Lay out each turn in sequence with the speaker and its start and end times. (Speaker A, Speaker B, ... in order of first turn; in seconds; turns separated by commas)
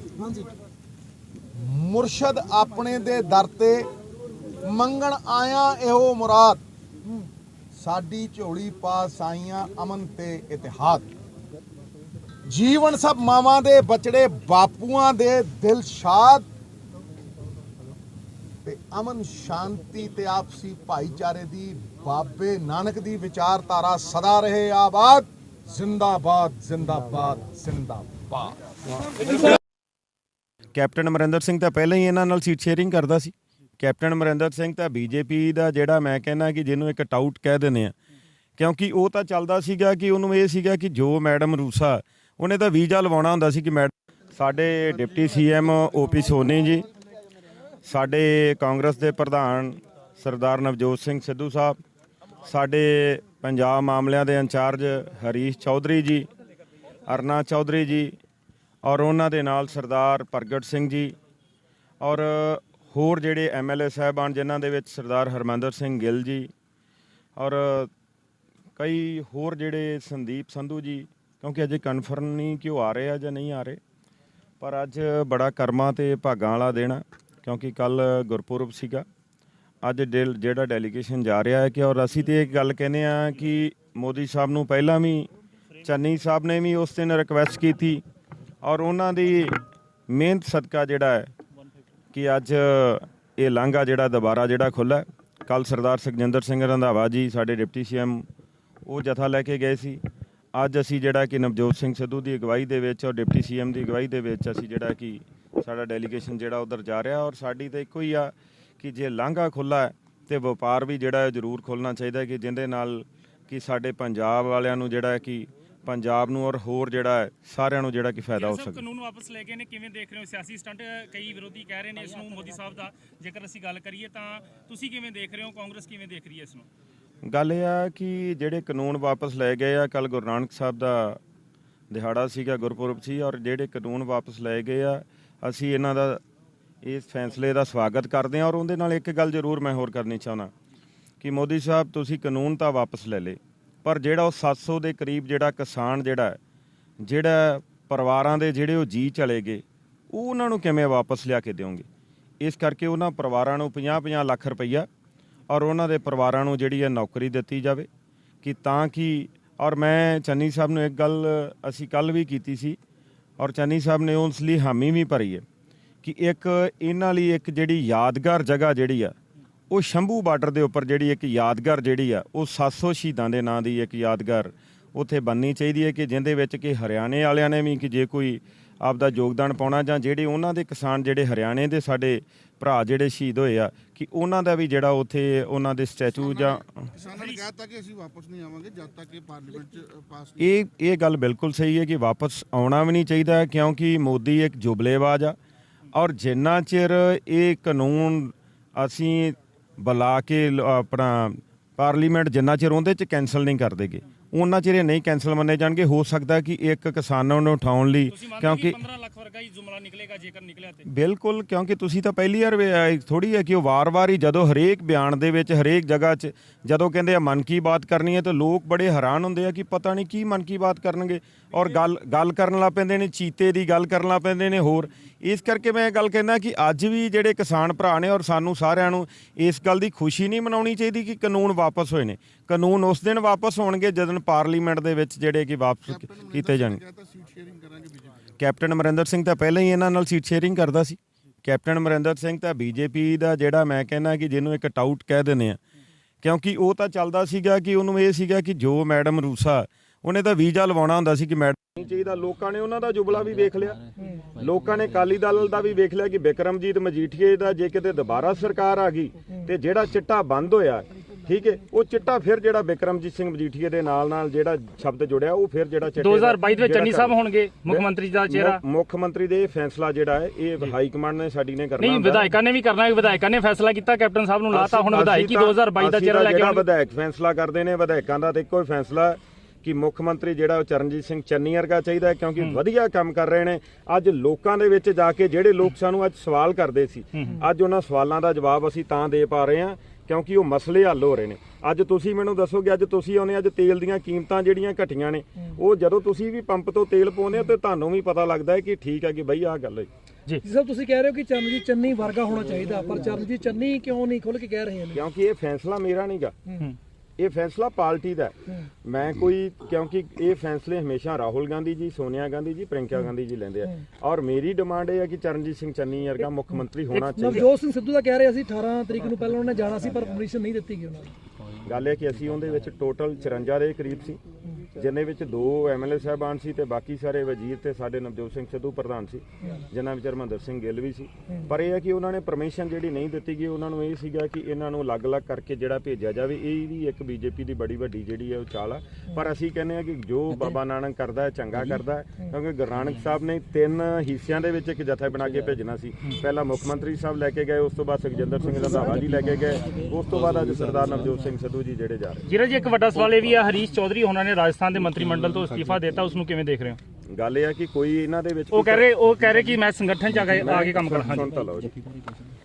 Speaker A: 1.6-3.9, Speaker A: 4.6-6.6, Speaker A: 7.8-11.1, Speaker A: 12.5-16.4, Speaker A: 18.6-28.6, Speaker A: 29.1-29.5, Speaker B: 30.8-37.9, Speaker B: 38.6-46.9, Speaker B: 47.8-51.8, Speaker B: 52.5-56.3, Speaker B: 57.1-58.2, Speaker B: 58.8-61.1, Speaker B: 62.0-66.5, Speaker B: 67.4-67.9, Speaker B: 68.8-73.8, Speaker B: 74.6-79.0, Speaker B: 79.8-85.3, Speaker B: 85.8-88.0, Speaker B: 88.6-89.6, Speaker B: 90.1-91.3, Speaker B: 92.1-98.2, Speaker B: 98.9-100.0, Speaker B: 100.5-118.8, Speaker C: 118.4-126.7, Speaker B: 127.2-131.2, Speaker B: 131.9-136.2, Speaker B: 136.8-140.5, Speaker B: 141.2-146.4, Speaker B: 147.0-151.8, Speaker B: 152.4-154.9, Speaker B: 155.5-157.9, Speaker B: 158.4-162.8, Speaker B: 163.4-165.4, Speaker B: 166.0-169.2, Speaker B: 169.7-187.1, Speaker D: 187.2-190.3, Speaker B: 190.4-195.3, Speaker B: 195.9-208.8, Speaker C: 208.1-210.8, Speaker B: 210.9-236.8, Speaker D: 237.0-238.0, Speaker B: 238.4-245.6, Speaker B: 246.2-253.8, Speaker B: 254.3-272.3, Speaker C: 266.0-268.6, Speaker C: 271.8-276.6, Speaker B: 274.5-299.9, Speaker E: 300.4-305.0, Speaker B: 304.9-306.4, Speaker B: 307.2-317.5, Speaker C: 316.9-317.4, Speaker E: 317.2-321.1, Speaker B: 321.6-324.2, Speaker B: 324.8-352.3, Speaker C: 352.3-356.8, Speaker B: 357.1-358.9, Speaker C: 358.5-361.3, Speaker B: 360.3-361.8